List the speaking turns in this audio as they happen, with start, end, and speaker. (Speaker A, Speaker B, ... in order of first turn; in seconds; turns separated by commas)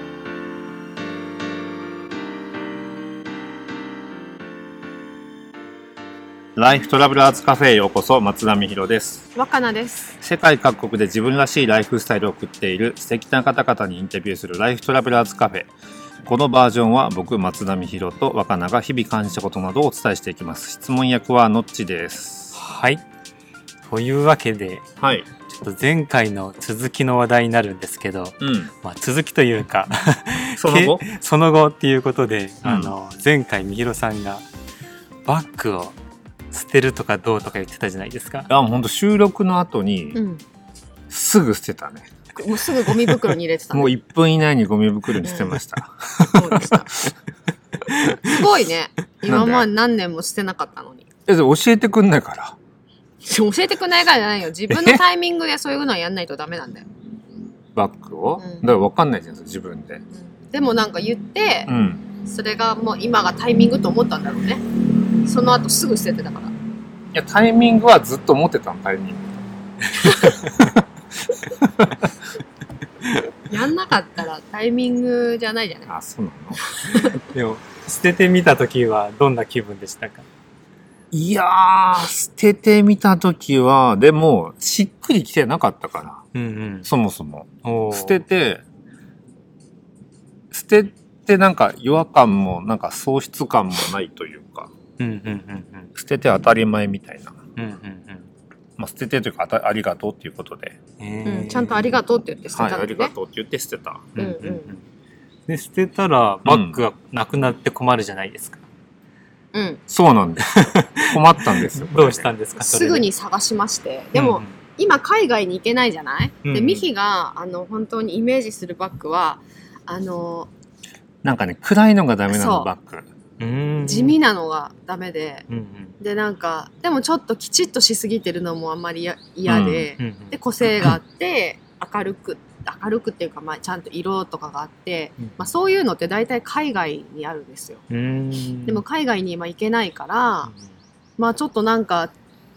Speaker A: 6.6-9.2, Speaker B: 9.3-10.1, Speaker A: 10.2-15.7, Speaker A: 16.2-22.6, Speaker C: 22.6-23.0, Speaker C: 23.9-24.8, Speaker A: 25.0-25.3, Speaker C: 25.5-34.5, Speaker A: 28.4-28.7, Speaker A: 30.6-31.1, Speaker A: 32.6-32.9, Speaker C: 35.3-36.0, Speaker C: 36.5-38.5, Speaker A: 38.5-40.2, Speaker B: 40.1-40.4, Speaker A: 41.1-42.1, Speaker B: 42.4-43.9, Speaker A: 43.7-47.1, Speaker B: 45.2-45.6, Speaker B: 46.3-46.9, Speaker C: 47.9-48.1, Speaker B: 48.2-51.0, Speaker A: 49.3-49.7, Speaker A: 51.3-52.6, Speaker B: 53.2-56.9, Speaker A: 54.7-55.0, Speaker A: 57.8-60.0, Speaker B: 58.4-58.7, Speaker B: 60.1-61.7, Speaker A: 61.7-62.1, Speaker B: 62.2-66.5, Speaker A: 67.1-69.5, Speaker B: 70.0-70.3, Speaker C: 70.3-70.7, Speaker A: 71.5-72.1, Speaker B: 73.5-75.9, Speaker A: 75.9-76.6, Speaker B: 76.8-77.2, Speaker C: 77.0-80.2, Speaker A: 81.1-86.2, Speaker C: 86.3-86.9, Speaker A: 86.8-88.6, Speaker C: 87.6-88.2, Speaker A: 90.5-94.7, Speaker C: 95.0-95.9, Speaker A: 96.0-97.4, Speaker C: 97.6-98.3, Speaker A: 98.8-100.8, Speaker C: 101.0-101.9, Speaker B: 101.2-103.1, Speaker A: 102.5-104.1, Speaker C: 104.2-104.8, Speaker B: 104.2-104.7, Speaker C: 105.5-108.7, Speaker A: 106.5-106.8, Speaker B: 109.5-109.8, Speaker A: 109.9-112.3, Speaker C: 110.5-113.1, Speaker B: 112.6-120.5, Speaker C: 114.1-114.6, Speaker C: 116.4-116.9, Speaker A: 121.2-123.1, Speaker B: 122.3-122.7, Speaker C: 123.4-124.2, Speaker B: 123.8-125.4, Speaker C: 125.5-126.0, Speaker B: 126.0-137.8, Speaker A: 129.5-129.9, Speaker C: 129.5-130.4, Speaker C: 135.2-135.5, Speaker C: 137.9-138.8, Speaker B: 138.7-140.5, Speaker B: 141.2-142.1